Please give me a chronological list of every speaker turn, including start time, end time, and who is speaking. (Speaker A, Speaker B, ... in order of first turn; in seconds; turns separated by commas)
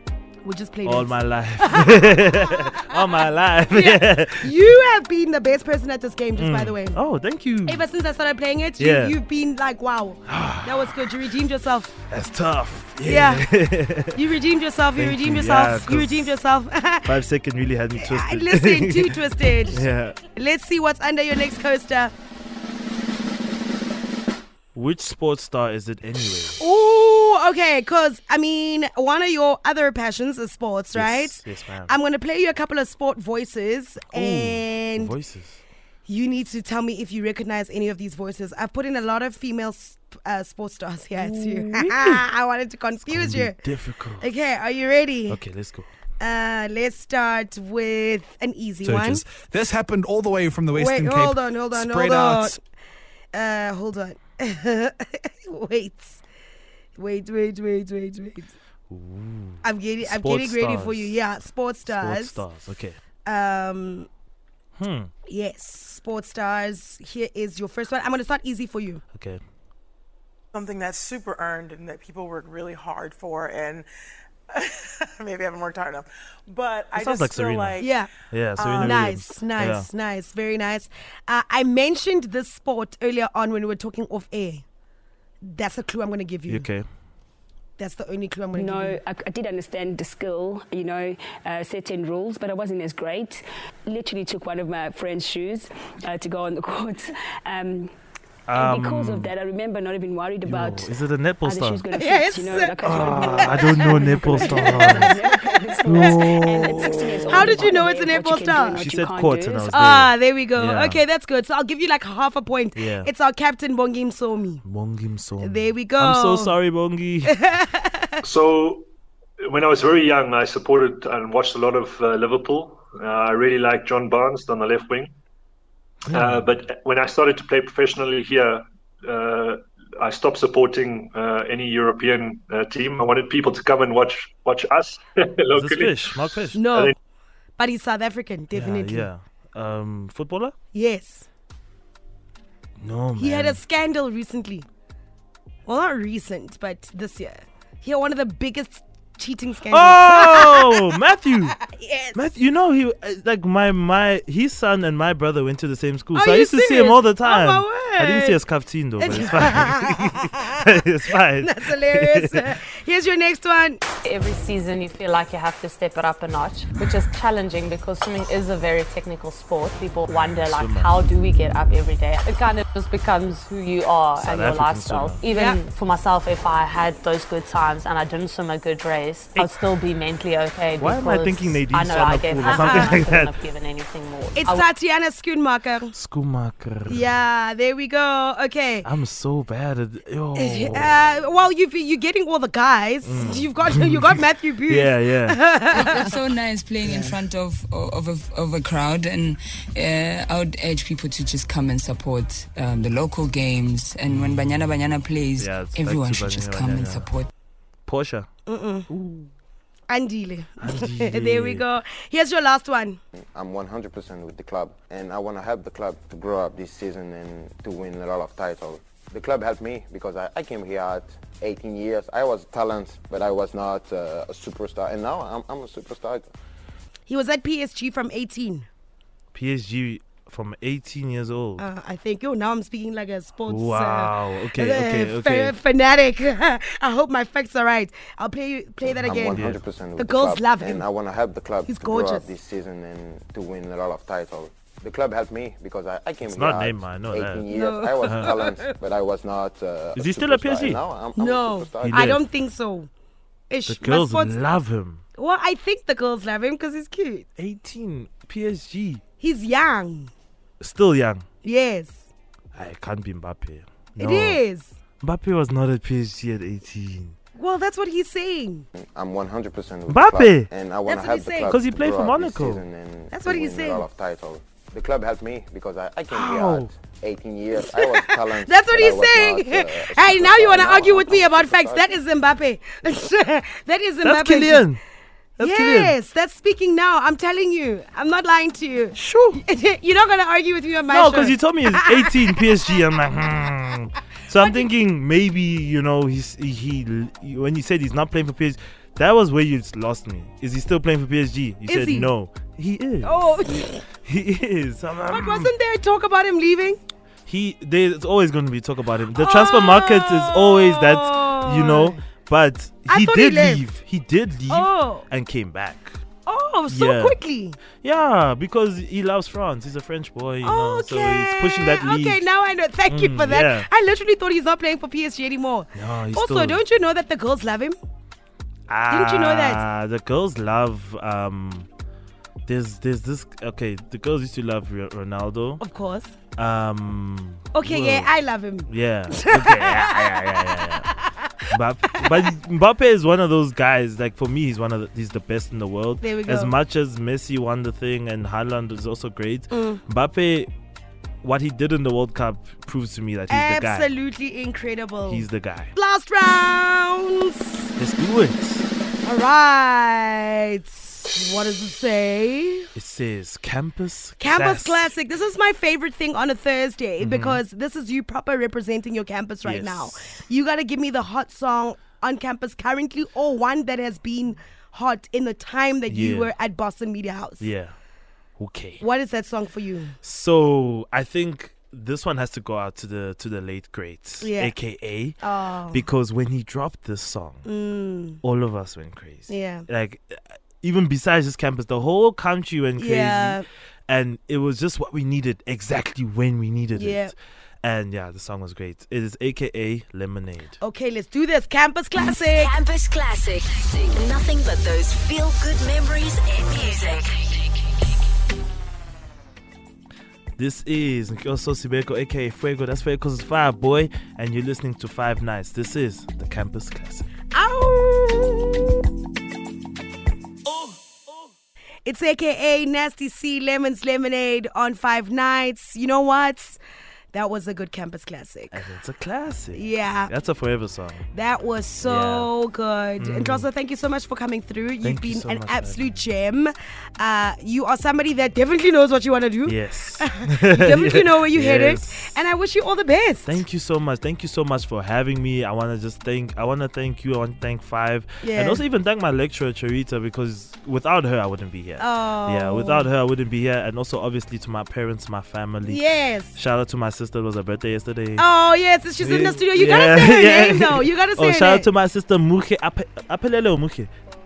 Speaker A: 0.4-7.0, Speaker B: 0.8-4.5, Speaker B: 6.3-7.9, Speaker A: 7.6-11.9, Speaker B: 8.8-9.2, Speaker B: 10.3-11.0, Speaker B: 12.1-14.2, Speaker A: 13.0-13.4, Speaker A: 14.1-17.2, Speaker B: 14.9-16.3, Speaker B: 17.0-20.2, Speaker A: 18.0-22.1, Speaker B: 24.7-26.6, Speaker A: 26.6-35.1, Speaker B: 30.9-31.9, Speaker B: 34.1-35.6, Speaker A: 36.1-43.6, Speaker B: 41.1-42.2, Speaker B: 43.0-44.3, Speaker A: 44.2-45.4, Speaker B: 45.3-45.9, Speaker A: 46.2-49.2, Speaker C: 48.8-52.6, Speaker A: 50.7-52.6, Speaker A: 53.3-56.2, Speaker A: 57.0-58.5, Speaker B: 58.9-61.2, Speaker A: 59.6-62.4, Speaker B: 61.9-63.0, Speaker A: 63.2-64.1, Speaker B: 64.8-65.1, Speaker A: 65.3-69.0, Speaker B: 69.1-69.4, Speaker D: 70.5-73.9, Speaker D: 74.5-78.0, Speaker B: 77.0-79.9, Speaker A: 77.8-84.6, Speaker A: 85.4-86.7, Speaker B: 86.5-86.8, Speaker A: 87.8-89.0, Speaker E: 88.5-97.9, Speaker B: 98.5-99.3, Speaker E: 98.5-100.9, Speaker B: 100.4-101.8, Speaker E: 101.4-109.9, Speaker A: 101.9-108.8, Speaker B: 102.8-105.2, Speaker B: 105.8-107.6, Speaker B: 108.8-111.0, Speaker A: 109.7-114.6, Speaker B: 112.8-113.1, Speaker B: 114.6-117.4, Speaker A: 115.4-116.5, Speaker A: 117.3-118.2, Speaker F: 118.2-118.9, Speaker F: 119.4-125.1, Speaker B: 126.0-126.5, Speaker F: 126.1-136.9, Speaker B: 135.5-136.6, Speaker A: 136.5-136.9, Speaker A: 137.6-139.1, Speaker B: 138.5-140.5, Speaker A: 140.7-141.3, Speaker B: 142.8-143.6, Speaker A: 143.2-144.7, Speaker A: 145.7-151.0, Speaker B: 149.7-151.6, Speaker A: 151.6-152.3, Speaker B: 152.1-162.5, Speaker A: 156.1-158.4, Speaker A: 159.0-160.6, Speaker A: 161.4-163.8, Speaker G: 164.0-184.7, Speaker B: 170.1-170.9, Speaker B: 174.2-175.2, Speaker A: 175.3-175.6, Speaker B: 180.8-183.3, Speaker A: 182.4-183.0, Speaker A: 184.3-185.9, Speaker B: 185.9-187.1, Speaker A: 186.9-188.9, Speaker B: 188.8-191.0, Speaker A: 190.3-196.1, Speaker B: 193.0-196.0, Speaker H: 195.7-207.3, Speaker B: 196.8-197.1, Speaker B: 204.1-204.6, Speaker B: 205.4-207.1, Speaker B: 207.9-208.3, Speaker A: 208.5-208.9, Speaker B: 208.9-209.2, Speaker A: 209.9-213.0, Speaker B: 210.6-211.6, Speaker I: 213.1-226.3, Speaker A: 227.1-228.7, Speaker B: 229.3-231.6, Speaker A: 231.6-239.4, Speaker B: 233.5-235.6, Speaker B: 239.0-239.6, Speaker I: 239.0-252.2, Speaker A: 240.0-240.8, Speaker A: 241.6-242.3, Speaker B: 246.2-247.5, Speaker A: 247.5-248.5, Speaker B: 248.0-248.6, Speaker B: 249.9-250.8, Speaker A: 251.2-252.9, Speaker B: 251.8-252.2, Speaker A: 253.5-254.4, Speaker B: 253.7-255.0, Speaker A: 255.2-257.3, Speaker B: 257.4-259.0, Speaker A: 259.2-260.1, Speaker B: 260.6-261.2, Speaker A: 261.4-262.1, Speaker B: 262.5-264.4, Speaker A: 264.0-264.8, Speaker B: 265.0-267.1, Speaker A: 267.4-268.7, Speaker I: 268.7-282.0, Speaker B: 269.9-270.5, Speaker A: 270.9-271.5, Speaker B: 271.5-272.6, Speaker A: 273.1-273.8, Speaker B: 276.1-276.7, Speaker A: 277.7-284.6, Speaker B: 284.0-284.8, Speaker B: 285.4-285.9, Speaker A: 285.4-292.4, Speaker B: 288.9-289.4, Speaker B: 290.9-305.5, Speaker A: 294.3-294.7, Speaker A: 301.7-302.1, Speaker A: 303.0-303.8, Speaker A: 305.1-306.8, Speaker B: 307.2-316.0, Speaker A: 309.1-312.0, Speaker A: 312.9-313.6, Speaker A: 314.5-315.1, Speaker A: 316.2-317.6, Speaker B: 316.7-317.2, Speaker B: 317.8-322.2, Speaker A: 320.4-327.8, Speaker B: 322.9-323.7, Speaker B: 325.7-326.6, Speaker B: 328.7-331.7, Speaker A: 328.9-329.6, Speaker B: 332.4-335.6, Speaker A: 335.6-336.1, Speaker B: 336.4-338.1, Speaker A: 337.5-342.3, Speaker B: 338.6-340.9, Speaker B: 341.5-350.5, Speaker A: 346.0-346.5, Speaker A: 349.5-349.8, Speaker B: 351.2-353.9, Speaker A: 353.3-357.7, Speaker B: 355.0-355.7, Speaker B: 357.8-358.7, Speaker A: 359.0-362.7, Speaker B: 362.7-364.9, Speaker A: 364.2-377.5, Speaker B: 367.0-367.4, Speaker B: 369.4-370.2, Speaker B: 375.9-376.3, Speaker B: 377.4-377.7, Speaker B: 378.4-378.8, Speaker A: 378.8-379.9, Speaker B: 380.0-385.2, Speaker A: 384.2-384.5, Speaker A: 385.2-385.9, Speaker B: 385.7-387.4, Speaker A: 387.4-388.2, Speaker B: 388.2-400.6, Speaker A: 389.3-389.7, Speaker A: 392.8-393.4, Speaker A: 396.7-397.1, Speaker A: 400.6-402.5, Speaker J: 402.3-408.0, Speaker B: 410.4-417.1, Speaker A: 417.3-418.6, Speaker B: 420.4-421.3, Speaker A: 421.9-426.6, Speaker A: 427.1-428.6, Speaker B: 428.5-431.1, Speaker A: 429.5-430.1, Speaker A: 431.1-443.4, Speaker B: 431.8-432.3, Speaker B: 433.0-433.5, Speaker B: 434.8-436.0, Speaker B: 439.4-442.2, Speaker B: 443.2-458.3, Speaker A: 448.2-448.6, Speaker A: 451.8-452.9, Speaker A: 455.6-456.4, Speaker A: 458.2-461.7, Speaker B: 459.0-463.9